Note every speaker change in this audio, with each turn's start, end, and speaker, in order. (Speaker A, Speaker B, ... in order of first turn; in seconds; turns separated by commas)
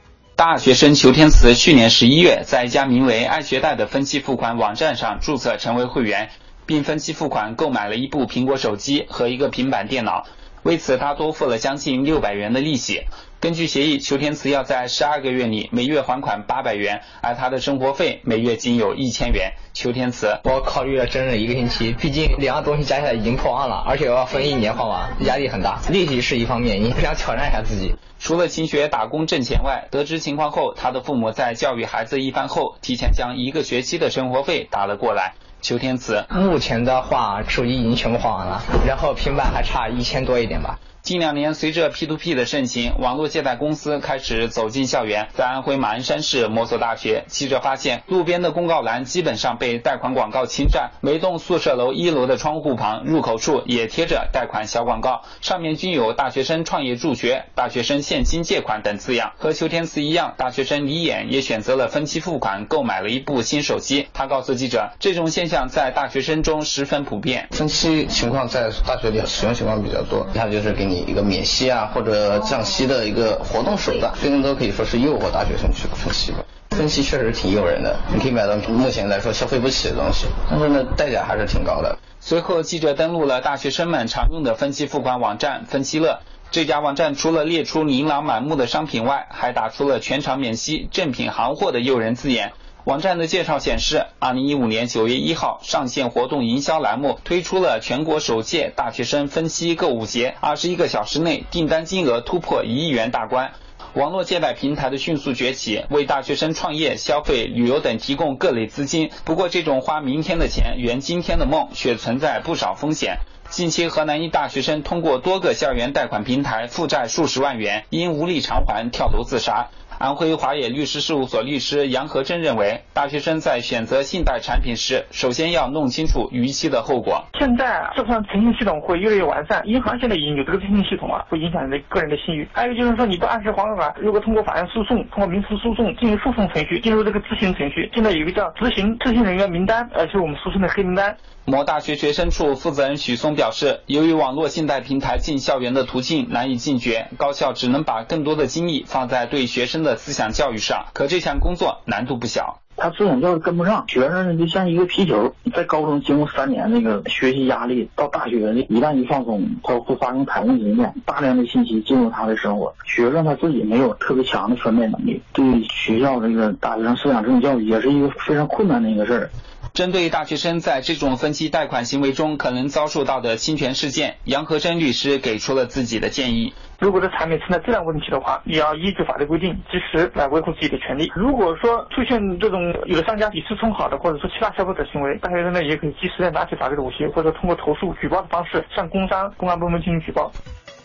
Speaker A: 0.4-20.4, Speaker B: 20.4-28.0, Speaker A: 28.2-36.3, Speaker B: 36.3-40.8, Speaker A: 41.0-67.5, Speaker C: 67.5-82.0, Speaker A: 82.2-127.3, Speaker D: 127.3-141.2, Speaker A: 141.5-152.6, Speaker E: 152.8-169.3, Speaker A: 169.8-176.6, Speaker D: 176.8-190.3